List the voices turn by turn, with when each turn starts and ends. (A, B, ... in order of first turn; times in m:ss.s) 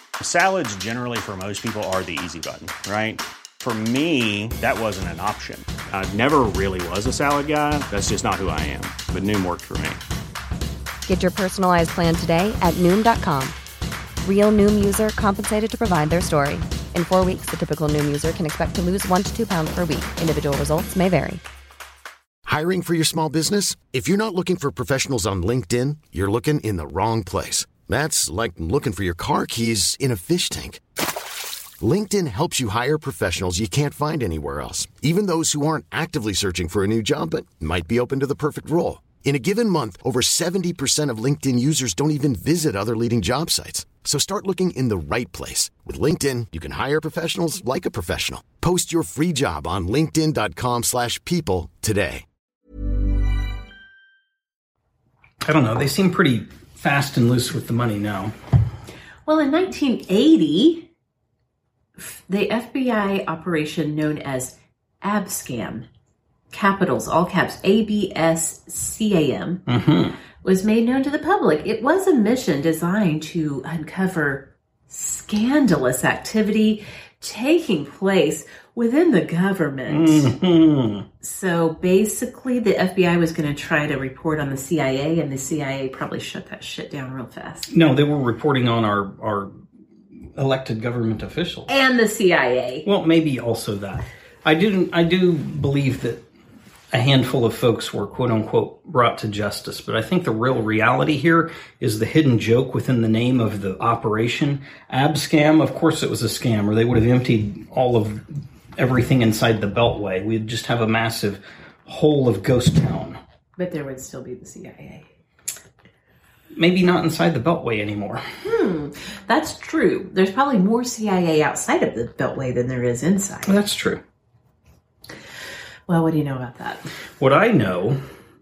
0:00.2-0:10.0 A
0:11.1-0:13.6 B
0:14.2-0:21.4 B
0:22.4-0:30.8 C
0:31.8-0:52.2 C
0:55.4-0:58.3 D
0:59.2-1:00.9 E
1:02.0-1:05.9 E
1:06.5-1:09.6 E
1:09.7-1:10.2 D
1:10.4-1:20.3 E
1:19.9-1:21.0 D
1:21.2-1:27.7 E
1:27.7-1:29.5 D
1:30.4-1:31.7 D
1:31.7-1:32.9 E
1:32.8-1:36.2 D
1:36.9-1:53.2 D
1:53.6-1:55.1 E
1:56.5-1:58.2 D
1:58.4-2:03.5 E
2:03.4-2:04.0 D
2:05.9-2:06.9 E
2:07.2-2:08.0 D